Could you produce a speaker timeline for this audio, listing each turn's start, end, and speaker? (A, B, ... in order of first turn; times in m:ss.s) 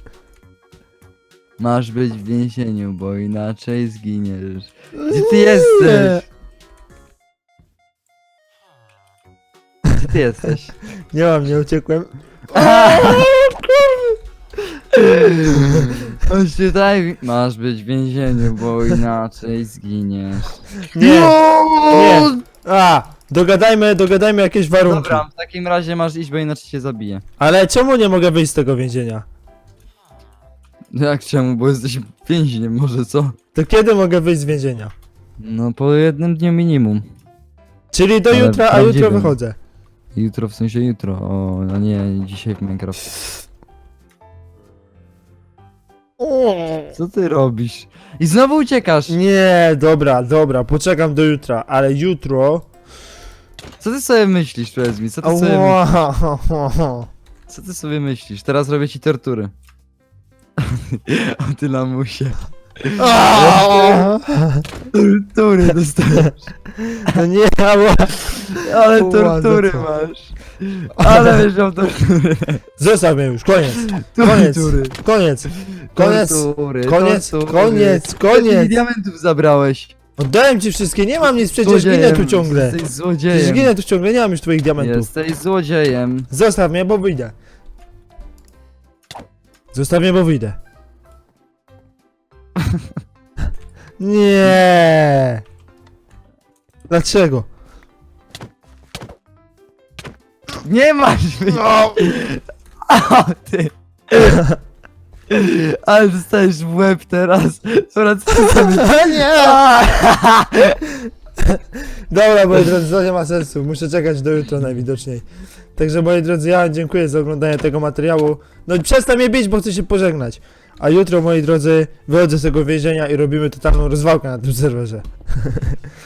0:01.6-0:06.2 A
0:05.0-0:06.2 B
0:09.9-0:10.8 A
0:11.1-0:14.2 B
0:12.5-0:13.3 A
0:14.9-0:22.4 A
0:15.5-0:15.9 B
0:20.9-0:21.4 B
0:21.9-0:25.2 B
0:24.8-0:27.2 A
0:27.4-0:29.2 B
0:30.9-0:33.4 A
0:33.5-0:34.9 B
0:35.4-0:37.0 A
0:37.9-0:39.6 B
0:38.3-0:39.4 A
0:40.1-0:43.1 A
0:46.2-0:46.9 B
0:47.0-0:49.2 A
0:49.1-0:52.7 B
0:53.8-0:56.0 A
0:55.2-0:57.1 B
0:57.5-0:59.5 A
1:00.6-1:04.1 A
1:03.0-1:04.7 B
1:04.9-1:06.5 A
1:06.8-1:09.9 B
1:08.5-1:12.6 A
1:11.0-1:11.4 B
1:12.8-1:18.8 B
1:13.8-1:15.0 A
1:15.5-1:19.9 A
1:20.2-1:22.8 B
1:21.2-1:23.7 A
1:23.3-1:25.1 B
1:24.8-1:26.3 A
1:26.3-1:27.3 B
1:29.7-1:30.6 B
1:34.0-1:35.4 B
1:36.9-1:37.5 B
1:40.6-1:44.4 A
1:41.5-1:42.1 B
1:44.3-1:44.6 B
1:45.3-1:50.8 A
1:48.5-1:49.6 B
1:51.5-1:55.2 B
1:55.8-2:05.8 B